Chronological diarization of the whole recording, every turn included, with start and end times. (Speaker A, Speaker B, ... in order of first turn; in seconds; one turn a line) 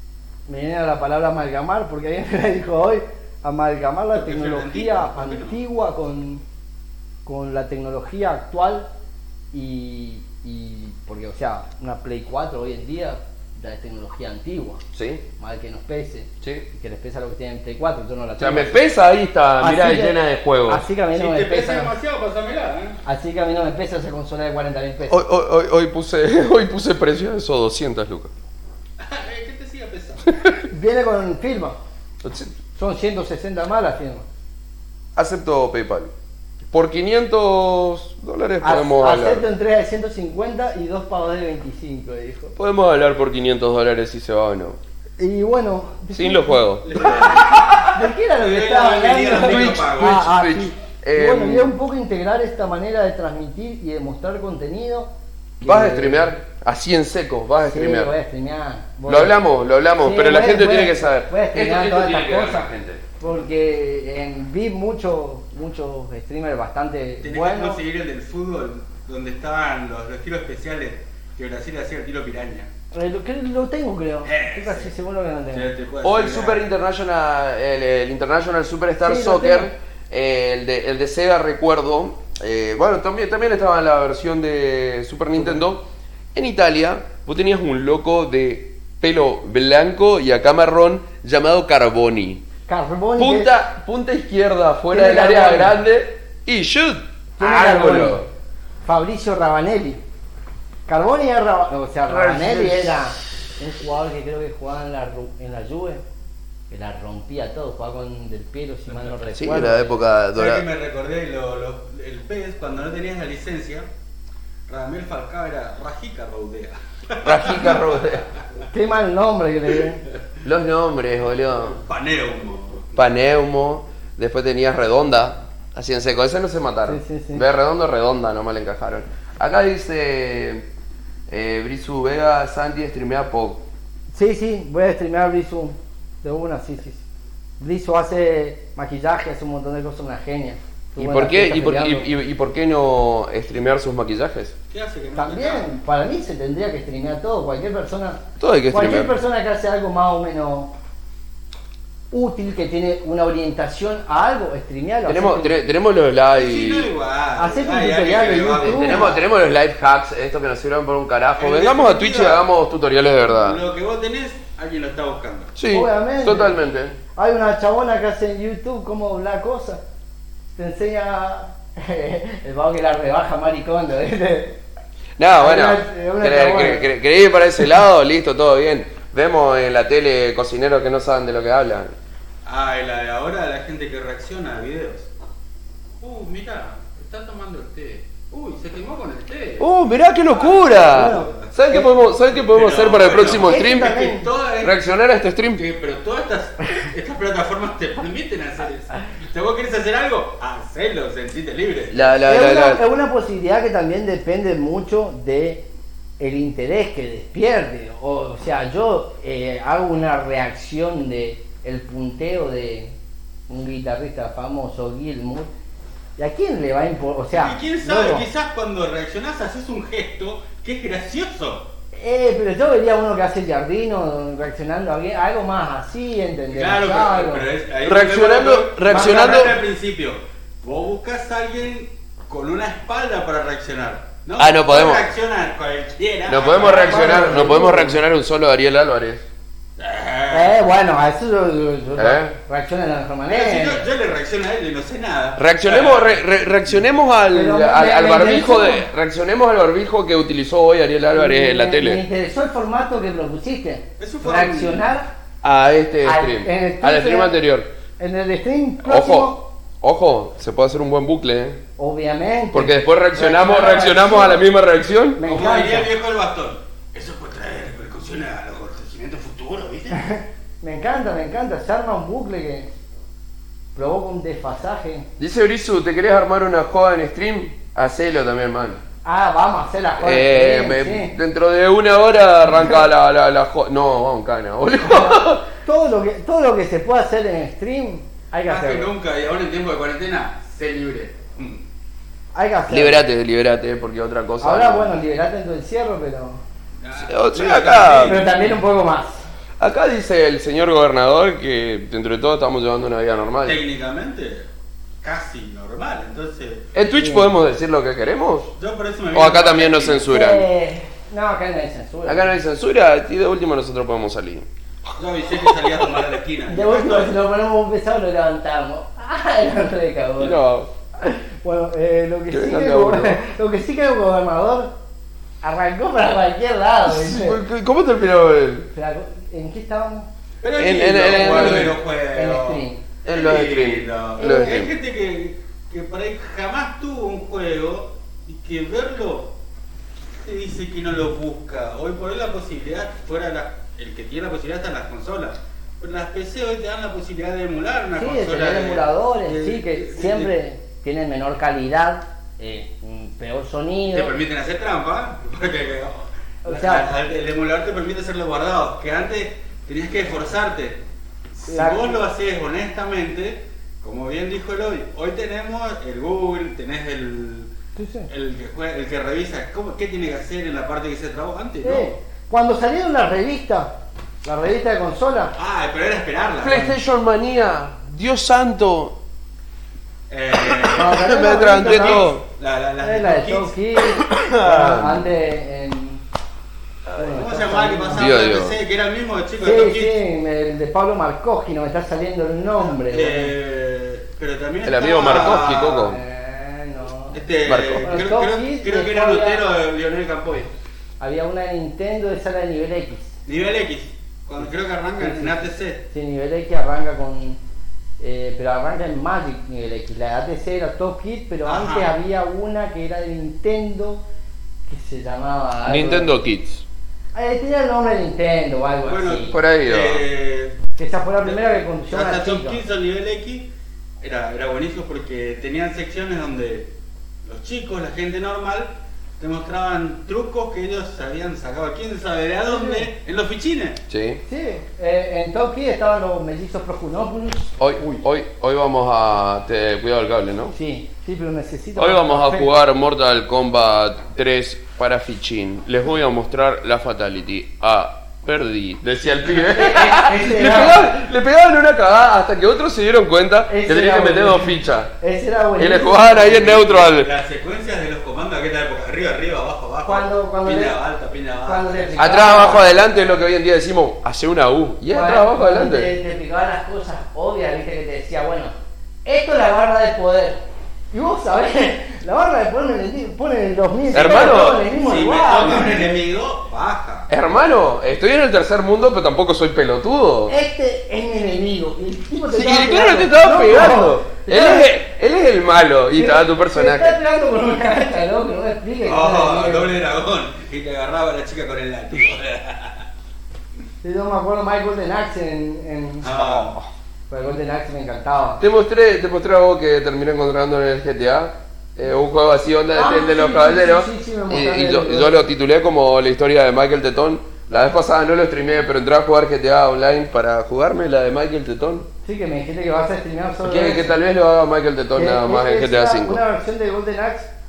Speaker A: 0.5-6.4
Speaker B: 4.1-5.6
Speaker A: 7.2-8.9
Speaker A: 9.5-14.8
Speaker C: 14.9-15.2
Speaker A: 15.4-18.9
Speaker C: 16.4-16.6
Speaker C: 18.4-20.9
Speaker A: 19.6-21.9
Speaker B: 21.1-23.0
Speaker A: 23.0-25.2
Speaker C: 25.1-28.3
Speaker B: 29.0-30.5
Speaker A: 30.7-31.8
Speaker C: 32.2-32.5
Speaker A: 32.7-34.2
Speaker C: 35.1-36.1
Speaker C: 36.7-39.5
Speaker A: 38.6-42.5
Speaker C: 42.5-44.8
Speaker A: 45.2-56.3
Speaker C: 46.1-47.8
Speaker B: 46.8-47.8
Speaker B: 48.4-50.3
Speaker C: 49.4-51.7
Speaker C: 55.6-58.1
Speaker A: 57.6-59.4
Speaker C: 59.1-63.0
Speaker A: 60.0-62.7
Speaker A: 63.2-67.8
Speaker B: 67.2-72.7
Speaker A: 72.9-75.7
Speaker B: 74.2-74.9
Speaker B: 75.5-76.6
Speaker C: 76.0-92.4
Speaker A: 79.0-79.7
Speaker A: 85.3-85.6
Speaker A: 92.7-93.5
Speaker C: 93.2-98.3
Speaker A: 94.9-95.8
Speaker A: 97.4-98.2
Speaker A: 98.8-100.0
Speaker A: 100.9-106.0
Speaker C: 102.1-103.0
Speaker A: 106.7-109.9
Speaker C: 109.3-110.7
Speaker B: 110.3-113.9
Speaker B: 114.7-117.8
Speaker C: 117.2-118.3
Speaker A: 118.7-120.0
Speaker C: 120.4-121.8
Speaker B: 121.8-122.9
Speaker C: 122.9-130.7
Speaker A: 126.8-127.4
Speaker C: 131.3-133.6
Speaker A: 134.1-137.0
Speaker A: 137.6-142.1
Speaker C: 141.0-144.5
Speaker B: 144.7-145.7
Speaker A: 145.2-150.7
Speaker C: 148.4-149.1
Speaker A: 152.1-155.5
Speaker C: 155.1-156.9
Speaker B: 156.3-159.2
Speaker A: 157.4-159.2
Speaker C: 158.6-163.6
Speaker B: 161.4-162.4
Speaker B: 163.2-165.5
Speaker C: 165.6-167.0
Speaker A: 165.7-166.6
Speaker A: 167.1-169.8
Speaker A: 170.5-174.6
Speaker C: 175.2-181.9
Speaker A: 175.3-176.9
Speaker B: 182.4-185.1
Speaker B: 186.0-189.6
Speaker C: 189.6-193.9
Speaker B: 190.3-191.6
Speaker A: 190.8-191.8
Speaker B: 192.4-194.8
Speaker A: 193.4-194.3
Speaker C: 194.6-195.6
Speaker B: 195.5-202.1
Speaker C: 201.9-202.8
Speaker A: 202.2-205.7
Speaker A: 206.2-212.9
Speaker A: 213.5-215.5
Speaker A: 216.2-218.2
Speaker B: 217.3-221.7
Speaker A: 221.9-227.5
Speaker B: 226.5-237.5
Speaker C: 227.8-229.5
Speaker C: 234.4-235.1
Speaker C: 236.3-239.2
Speaker A: 236.6-238.0
Speaker B: 239.8-240.8
Speaker A: 240.3-243.8
Speaker C: 242.0-242.3
Speaker B: 243.3-246.2
Speaker C: 245.4-252.0
Speaker A: 247.3-248.9
Speaker A: 251.1-255.1
Speaker B: 254.0-254.8
Speaker C: 255.4-257.7
Speaker A: 256.0-257.3
Speaker A: 258.0-259.4
Speaker C: 258.8-261.6
Speaker A: 261.8-264.5
Speaker C: 262.5-265.2
Speaker A: 265.2-265.9
Speaker B: 265.2-270.0
Speaker A: 269.9-272.7
Speaker A: 273.7-275.1
Speaker C: 275.2-278.8
Speaker A: 279.0-281.1
Speaker C: 280.0-285.5
Speaker A: 284.8-288.9
Speaker B: 288.5-291.6
Speaker A: 292.3-293.0
Speaker C: 292.7-294.9
Speaker A: 294.4-296.4
Speaker B: 296.8-298.5
Speaker C: 297.0-298.2
Speaker A: 298.0-299.2
Speaker C: 299.6-303.6
Speaker B: 303.4-304.5
Speaker B: 305.0-306.7
Speaker C: 306.7-308.5
Speaker A: 306.9-307.3
Speaker B: 308.6-310.1
Speaker C: 309.1-310.4
Speaker A: 310.1-312.3
Speaker C: 312.1-314.5
Speaker B: 314.9-317.1
Speaker A: 316.5-320.4
Speaker C: 320.2-320.7
Speaker A: 321.0-324.7
Speaker C: 322.3-323.2
Speaker A: 325.4-327.4
Speaker C: 326.8-328.7
Speaker A: 328.7-330.1
Speaker B: 330.4-339.4
Speaker C: 330.6-331.8
Speaker A: 331.0-332.8
Speaker C: 333.1-334.7
Speaker A: 334.2-334.6
Speaker B: 340.2-350.3
Speaker A: 347.9-354.2
Speaker B: 353.9-360.8
Speaker A: 356.4-356.9
Speaker B: 361.4-367.5
Speaker A: 361.5-362.0
Speaker A: 367.8-368.1
Speaker B: 368.1-371.9
Speaker A: 371.6-375.3
Speaker B: 375.4-376.6
Speaker C: 376.4-379.0
Speaker A: 376.4-376.7
Speaker B: 380.1-383.5
Speaker C: 380.5-382.2
Speaker A: 380.7-382.1
Speaker A: 382.8-386.0
Speaker C: 384.0-385.1
Speaker A: 386.9-388.1
Speaker B: 387.1-390.0
Speaker C: 387.9-388.6
Speaker A: 389.4-393.3
Speaker B: 392.6-395.9
Speaker C: 394.6-396.0
Speaker A: 395.0-397.2
Speaker B: 397.1-400.5
Speaker C: 397.4-397.9
Speaker A: 397.8-399.4
Speaker A: 401.0-403.2
Speaker B: 403.2-405.9
Speaker A: 404.4-407.4
Speaker A: 408.0-414.0
Speaker B: 411.4-411.9
Speaker A: 414.7-416.1
Speaker C: 415.6-416.6
Speaker A: 417.1-419.3
Speaker B: 418.9-420.6
Speaker C: 419.3-420.0
Speaker A: 420.8-422.6
Speaker B: 421.2-423.5
Speaker B: 424.0-426.7
Speaker B: 427.2-433.8
Speaker A: 432.5-432.9
Speaker C: 433.9-434.2
Speaker A: 434.2-438.0
Speaker C: 437.6-440.5
Speaker A: 440.5-442.5
Speaker C: 441.8-454.9
Speaker A: 449.3-450.9
Speaker B: 449.7-450.7
Speaker A: 453.5-456.8
Speaker C: 455.6-457.1
Speaker B: 456.6-462.7
Speaker A: 459.8-460.8
Speaker A: 461.4-462.8
Speaker C: 462.0-465.9
Speaker A: 464.9-468.5
Speaker A: 469.0-470.4
Speaker A: 470.9-475.9
Speaker C: 473.9-474.6
Speaker B: 474.0-477.1
Speaker C: 477.1-480.4
Speaker A: 480.3-484.7
Speaker C: 482.3-487.0
Speaker A: 485.9-489.7
Speaker B: 488.8-492.8
Speaker A: 493.8-496.5
Speaker B: 496.0-496.5
Speaker A: 497.1-498.4
Speaker C: 498.4-511.9
Speaker A: 502.7-505.2
Speaker A: 512.0-513.9
Speaker C: 513.4-516.2
Speaker A: 514.9-517.3